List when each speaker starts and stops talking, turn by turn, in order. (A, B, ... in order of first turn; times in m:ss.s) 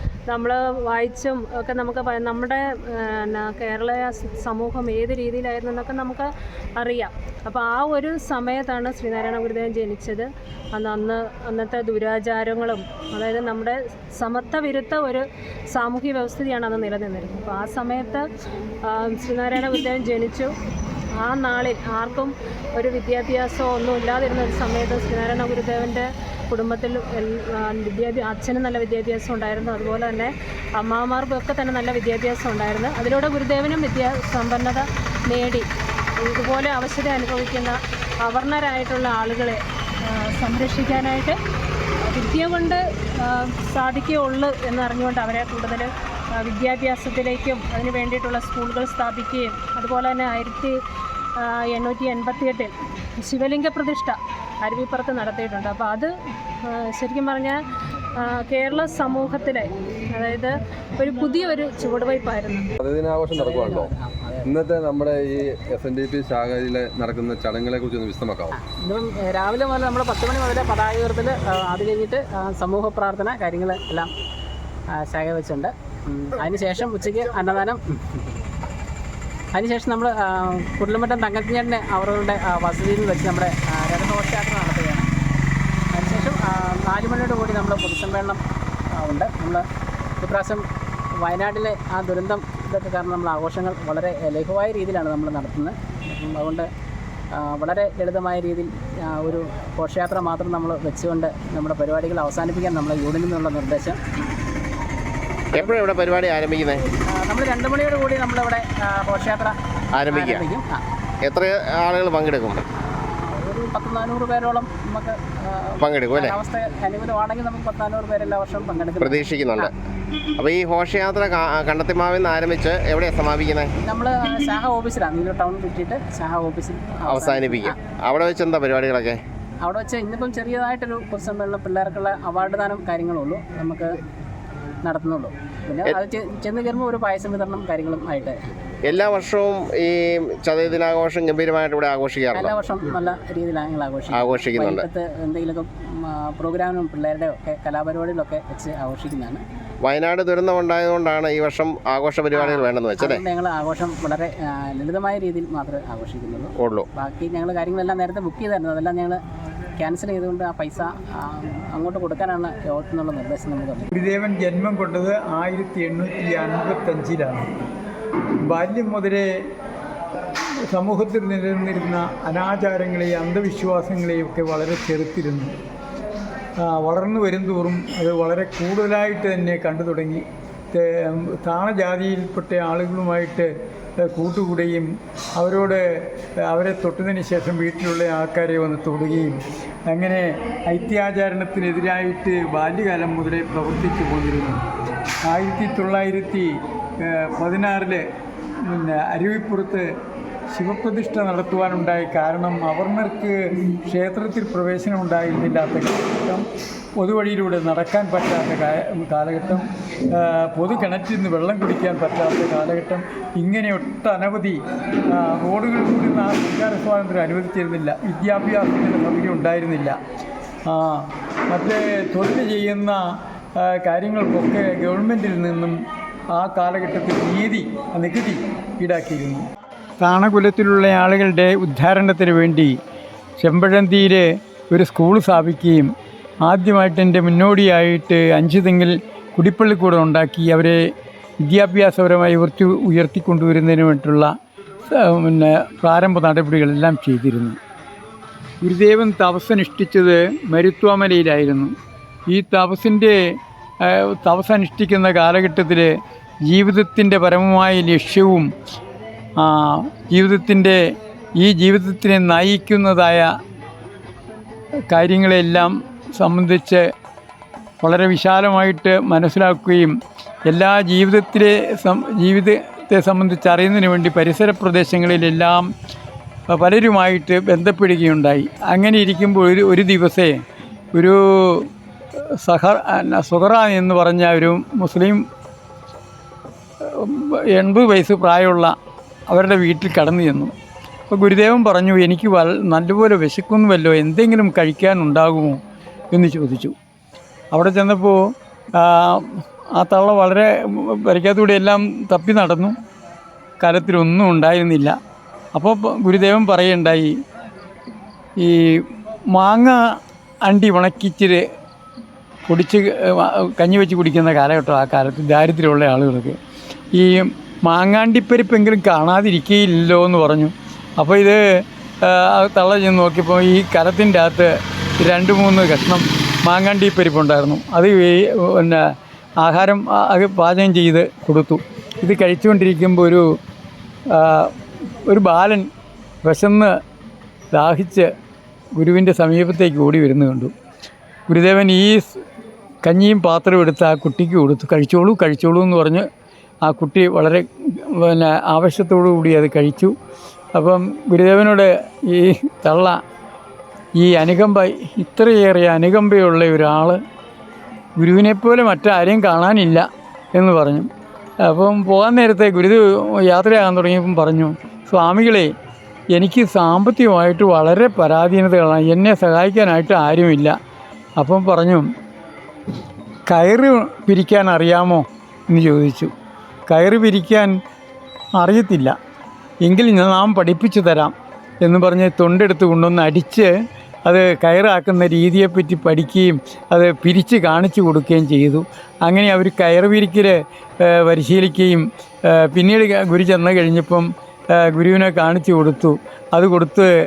0:00.3-0:18.2 A
0:18.8-0:20.5 A
0:21.2-0:35.6 A
0:36.2-0:39.6 A
0:40.1-0:41.4 A
0:42.0-0:50.7 A
0:51.4-0:52.7 A
0:53.2-0:56.1 A
0:56.7-0:57.5 A
0:58.2-1:02.6 A
1:02.8-1:03.9 B
1:03.3-1:04.6 C
1:04.4-1:08.5 B
1:08.5-1:14.1 C
1:15.0-1:18.2 C
1:19.5-1:25.1 C
1:25.9-1:28.4 C
1:29.0-1:29.6 C
1:30.2-1:30.6 C
1:31.2-1:36.7 C
1:37.3-1:44.0 C
1:45.5-1:46.8 D
1:47.1-1:49.5 C
1:50.0-1:50.4 D
1:50.1-1:50.8 C
1:51.2-1:52.6 D
1:52.9-1:59.7 C
1:55.8-1:56.3 D
1:59.0-1:59.7 D
2:00.4-2:03.7 D
2:03.8-2:07.8 C
2:07.1-2:09.2 D
2:09.6-2:13.9 C
2:14.8-2:18.4 C
2:18.8-2:22.5 D
2:22.3-2:29.4 C
2:24.1-2:24.8 D
2:29.8-2:33.2 D
2:32.3-2:39.2 C
2:36.6-2:36.8 D
2:39.8-2:43.9 C
2:43.9-2:47.5 E
2:48.4-2:49.2 E
2:50.7-2:55.5 E
2:56.6-3:05.8 E
3:06.4-3:14.6 E
3:15.2-3:18.0 E
3:18.6-3:19.8 E
3:20.5-3:26.5 E
3:27.0-3:40.0 E
3:40.6-3:43.0 E
3:43.6-3:45.8 E
3:46.3-3:49.4 E
3:50.0-3:52.8 E
3:53.4-3:55.9 E
3:56.4-4:00.8 E
4:01.4-4:04.3 E
4:04.9-4:07.6 E
4:08.6-4:11.7 E
4:12.3-4:13.2 E
4:13.8-4:15.9 E
4:16.5-4:18.5 E
4:19.4-4:20.8 E
4:21.4-4:23.3 E
4:24.9-4:26.8 E
4:27.8-4:29.9 E
4:30.5-4:35.6 E
4:36.5-4:40.4 E
4:40.9-4:41.7 E
4:42.4-4:45.2 E
4:46.8-4:48.7 E
4:49.3-4:50.5 E
4:51.1-4:55.6 E
4:56.1-4:56.7 E
4:57.5-5:02.7 E
5:03.6-5:05.0 E
5:05.5-5:07.1 E
5:08.4-5:09.8 E
5:10.4-5:11.4 E
5:12.5-5:16.4 E
5:16.9-5:21.4 E
5:22.0-5:28.8 E
5:29.4-5:33.2 E
5:34.1-5:34.5 E
5:35.0-5:35.7 E
5:36.2-5:36.7 E
5:37.5-5:38.1 E
5:38.7-5:40.5 E
5:41.3-5:42.0 E
5:42.8-5:46.0 E
5:46.6-5:49.9 E
5:50.5-5:53.0 E
5:54.0-5:57.0 E
5:58.0-6:00.9 E
6:01.4-6:05.5 E
6:06.1-6:10.6 E
6:11.2-6:11.8 E
6:13.3-6:16.1 E
6:16.7-6:17.5 E
6:18.4-6:19.0 E
6:19.6-6:23.5 E
6:24.0-6:36.9 E